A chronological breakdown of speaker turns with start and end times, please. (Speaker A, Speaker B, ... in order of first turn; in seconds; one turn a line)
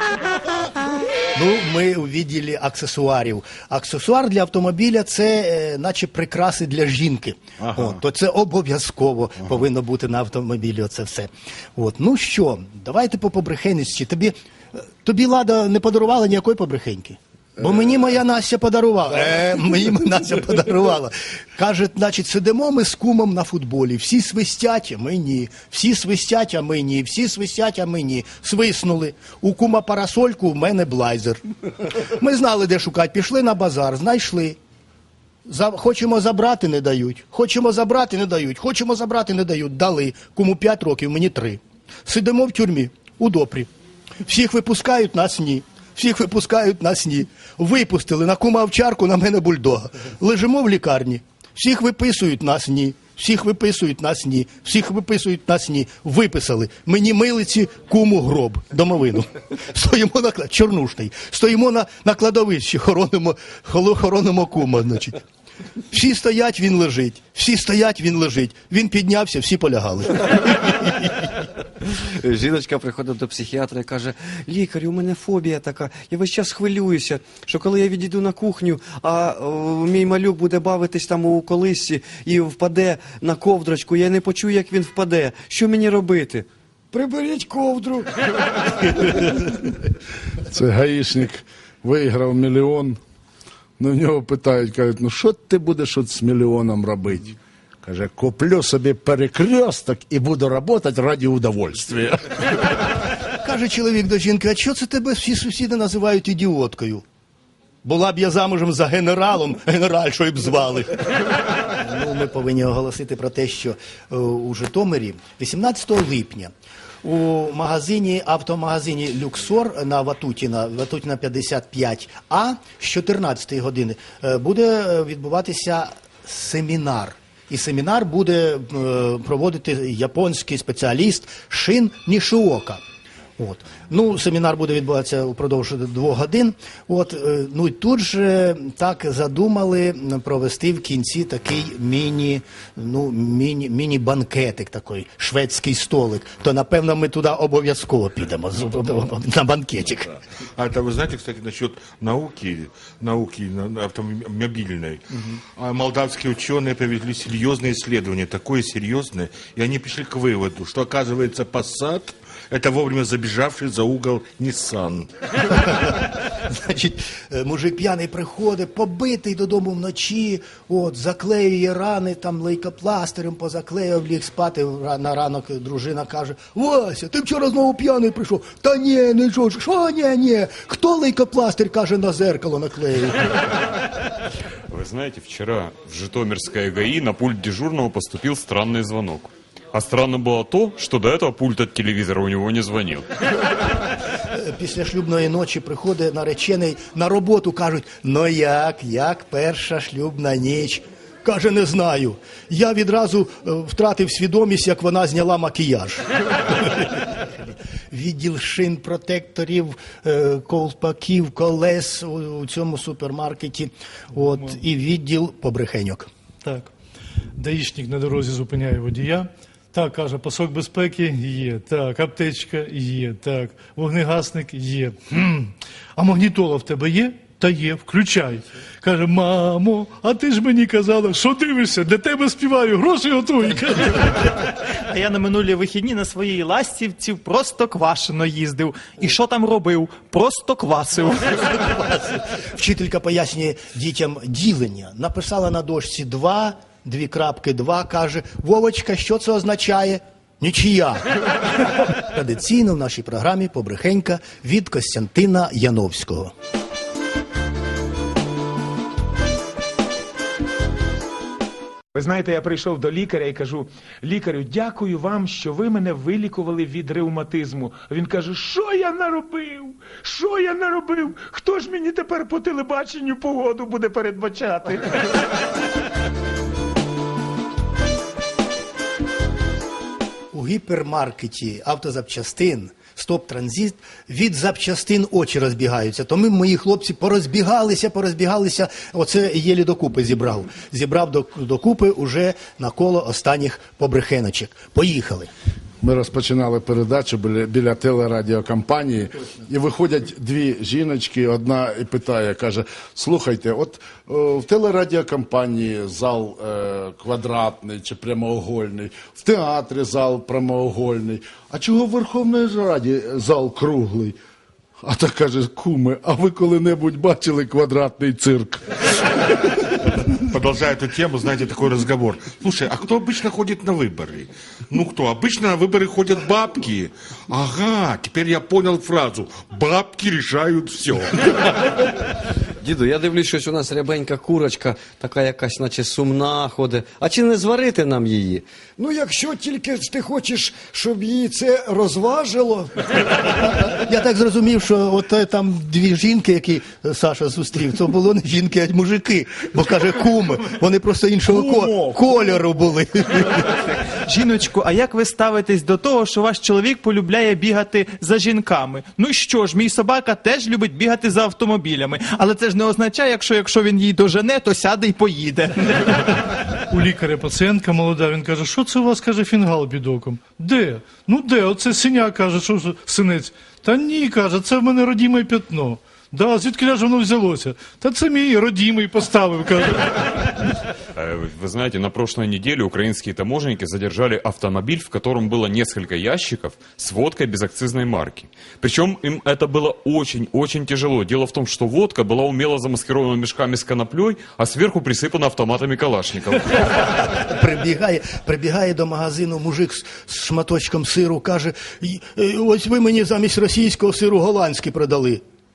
Speaker A: 1.3-14.3
Speaker A: 15.0-31.4
Speaker A: 31.9-34.6
Speaker A: 35.5-43.7
Speaker A: 44.2-65.2
Speaker A: 65.9-71.1
Speaker B: 72.2-86.5
Speaker C: 86.9-89.3
Speaker D: 90.5-93.0
Speaker D: 93.8-102.5
Speaker A: 103.3-107.0
Speaker A: 107.8-111.0
Speaker A: 111.6-116.5
Speaker A: 117.0-132.8
Speaker A: 133.4-150.2
Speaker E: 150.5-165.1
Speaker A: 165.6-183.3
Speaker F: 184.7-193.1
Speaker A: 194.3-207.3
Speaker A: 207.9-216.1
Speaker G: 216.4-216.7
Speaker G: 217.4-234.5
Speaker H: 234.7-241.2
Speaker A: 241.4-251.1
Speaker A: 251.8-256.3
Speaker I: 261.9-275.1
Speaker A: 280.3-295.3
Speaker D: 295.8-314.1
Speaker D: 314.8-318.9
Speaker E: 320.1-331.8
Speaker B: 332.6-338.4
Speaker C: 338.8-343.0
Speaker A: 343.6-353.5
Speaker D: 351.3-351.9
Speaker H: 354.0-366.0
Speaker G: 366.7-380.6
Speaker F: 380.9-396.9
Speaker A: 396.9-405.2